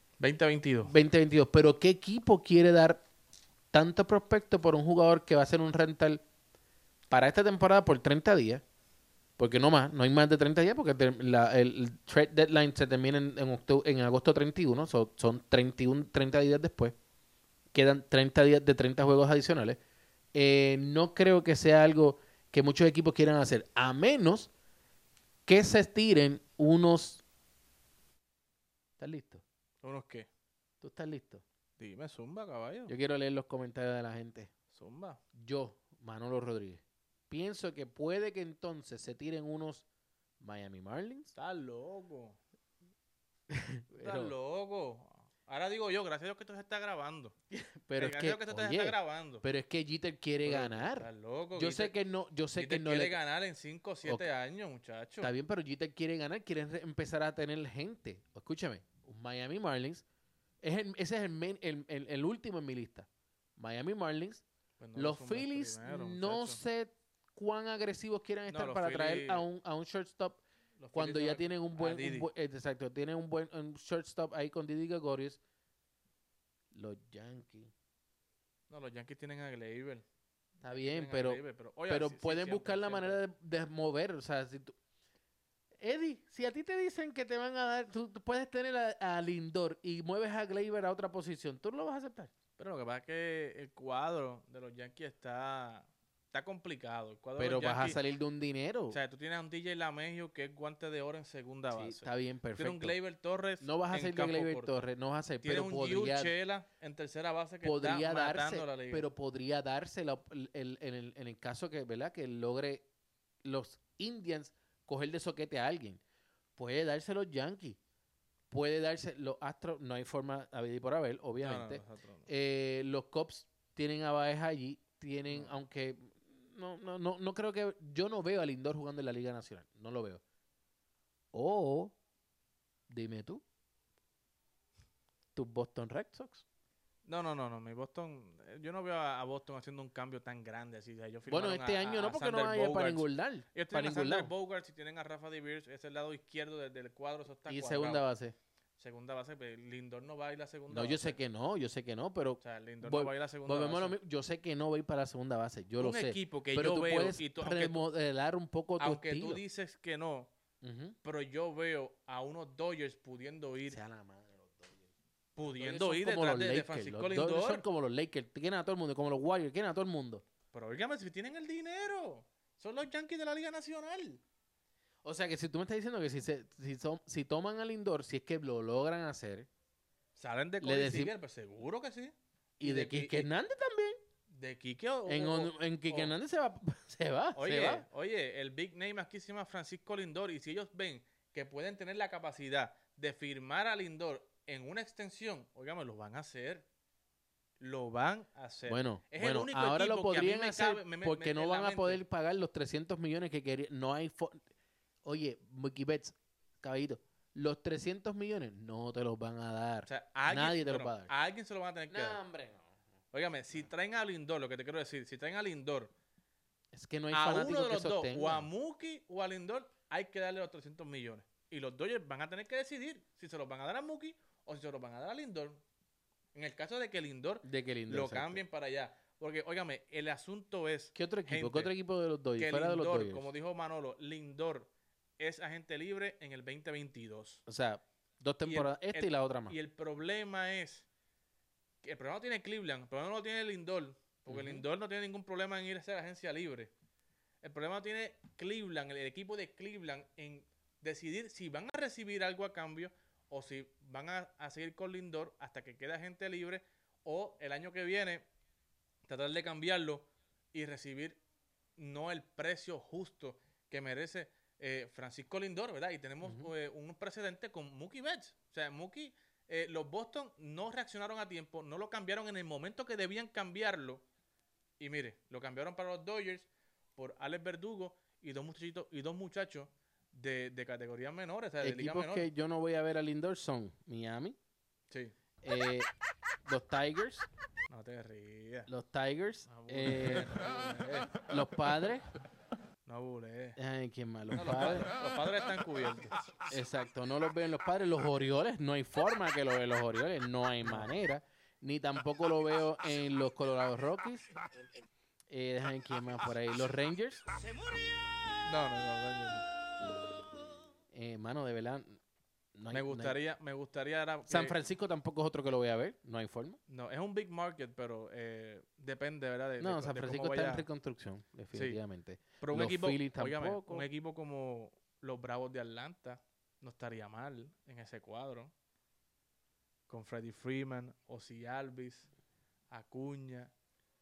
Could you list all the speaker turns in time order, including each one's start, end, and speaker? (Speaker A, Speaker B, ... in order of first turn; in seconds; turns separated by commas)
Speaker A: 0.2-0.9, Speaker B: 0.8-3.0, Speaker B: 3.7-6.2, Speaker B: 7.1-8.6, Speaker B: 9.4-16.9, Speaker B: 17.7-19.8, Speaker B: 20.3-24.5, Speaker B: 25.5-27.2, Speaker B: 29.0-29.4, Speaker A: 29.8-30.3, Speaker B: 30.8-31.4, Speaker A: 31.8-32.9, Speaker B: 32.9-34.5, Speaker A: 34.7-35.2, Speaker B: 35.4-39.9, Speaker B: 40.4-41.3, Speaker A: 41.4-42.4, Speaker B: 43.5-44.3, Speaker A: 44.0-47.4, Speaker B: 47.5-53.2, Speaker A: 47.9-49.5, Speaker A: 50.4-52.0, Speaker A: 52.5-55.3, Speaker B: 55.2-60.0, Speaker B: 60.6-64.4, Speaker A: 64.8-66.6, Speaker B: 65.0-70.4, Speaker A: 68.5-69.5, Speaker A: 70.8-72.3, Speaker B: 70.9-75.4, Speaker B: 76.7-77.7, Speaker A: 78.7-80.0, Speaker B: 80.6-84.7, Speaker A: 80.7-83.2, Speaker B: 85.8-92.3, Speaker A: 92.6-98.0, Speaker B: 97.4-99.0, Speaker A: 98.9-104.8, Speaker B: 101.7-103.0, Speaker B: 103.6-106.3, Speaker A: 105.4-109.1, Speaker B: 107.6-112.8, Speaker B: 113.4-116.0, Speaker B: 116.6-117.8, Speaker B: 118.5-130.2, Speaker A: 121.4-122.3, Speaker B: 131.3-131.9, Speaker B: 132.9-133.4, Speaker B: 135.3-136.4, Speaker A: 137.1-148.1, Speaker B: 141.3-144.3, Speaker B: 147.5-148.3, Speaker A: 148.8-151.2, Speaker B: 150.7-159.4, Speaker A: 152.4-154.0, Speaker A: 155.8-157.9, Speaker A: 158.8-160.3, Speaker B: 160.6-161.0, Speaker A: 161.0-163.8, Speaker B: 163.7-170.2, Speaker A: 165.4-167.7, Speaker A: 170.5-174.2, Speaker B: 175.0-179.5, Speaker A: 180.2-183.3, Speaker B: 180.6-181.1, Speaker B: 182.6-184.0, Speaker A: 184.3-186.2, Speaker B: 185.1-187.8, Speaker A: 187.3-196.7, Speaker A: 197.6-202.0, Speaker B: 198.7-204.4, Speaker B: 205.1-211.1, Speaker A: 209.9-212.2, Speaker B: 211.9-212.7, Speaker A: 213.1-215.9, Speaker B: 216.7-218.5, Speaker A: 217.1-225.6, Speaker A: 226.3-231.8, Speaker B: 227.4-228.4, Speaker B: 230.9-233.3, Speaker A: 232.4-237.4, Speaker B: 237.5-239.6, Speaker A: 238.5-240.9, Speaker A: 241.8-246.7, Speaker B: 244.3-244.6, Speaker A: 247.4-258.2, Speaker A: 259.1-261.2, Speaker A: 261.8-274.0, Speaker B: 266.2-266.5, Speaker A: 274.8-282.3, Speaker B: 281.6-284.4, Speaker B: 285.4-285.9, Speaker B: 286.5-287.3, Speaker A: 287.7-288.7, Speaker B: 288.7-290.4, Speaker A: 289.5-291.1, Speaker B: 291.3-292.1, Speaker A: 292.9-293.6, Speaker B: 293.6-294.9, Speaker A: 294.3-296.4, Speaker B: 296.5-304.3, Speaker A: 300.6-300.9, Speaker B: 305.3-307.2, Speaker A: 308.4-309.4, Speaker B: 310.9-312.0, Speaker B: 312.6-313.2, Speaker A: 312.7-314.6, Speaker B: 314.3-316.6, Speaker A: 316.7-320.7, Speaker B: 319.6-323.9, Speaker A: 321.5-321.8, Speaker A: 322.4-328.5, Speaker A: 329.9-332.1, Speaker A: 332.7-333.5